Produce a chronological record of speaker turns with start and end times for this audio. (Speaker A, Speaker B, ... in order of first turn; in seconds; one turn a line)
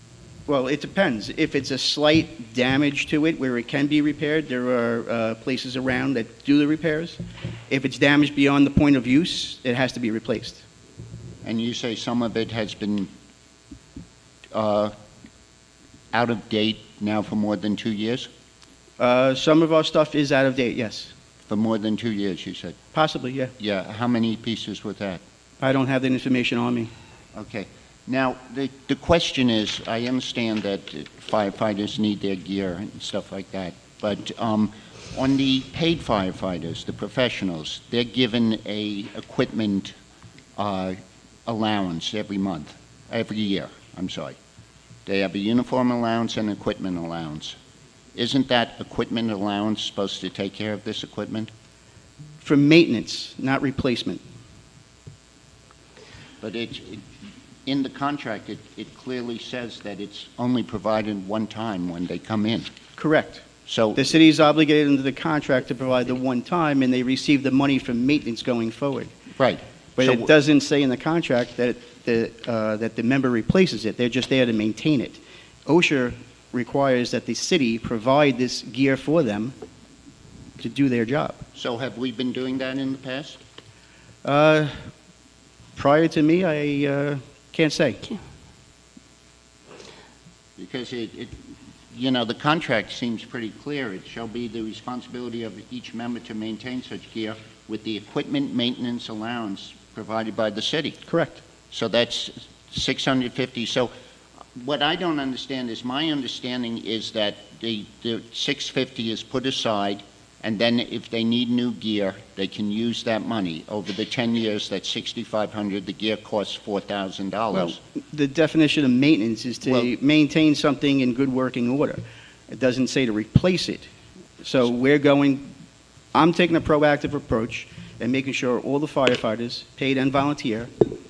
Speaker A: 0.5-10.6
Speaker B: 11.4-13.1
Speaker B: 14.5-14.9
Speaker B: 16.1-18.3
Speaker A: 19.0-21.1
Speaker B: 21.5-22.8
Speaker A: 22.9-23.5
Speaker B: 23.6-25.2
Speaker A: 25.6-26.9
Speaker B: 27.3-39.9
Speaker B: 40.6-44.4
Speaker B: 45.0-47.5
Speaker B: 48.1-51.5
Speaker A: 52.4-54.2
Speaker B: 56.4-57.0
Speaker B: 57.6-62.7
Speaker A: 63.0-69.1
Speaker B: 63.7-64.1
Speaker B: 69.4-70.3
Speaker A: 70.0-79.5
Speaker A: 80.6-81.4
Speaker B: 81.5-83.4
Speaker A: 84.2-84.9
Speaker A: 85.8-88.1
Speaker B: 90.6-91.4
Speaker B: 91.9-101.0
Speaker A: 101.0-101.4
Speaker B: 101.7-103.9
Speaker B: 104.5-117.8
Speaker A: 117.5-123.8
Speaker B: 119.6-119.9
Speaker A: 124.4-125.5
Speaker A: 126.1-130.7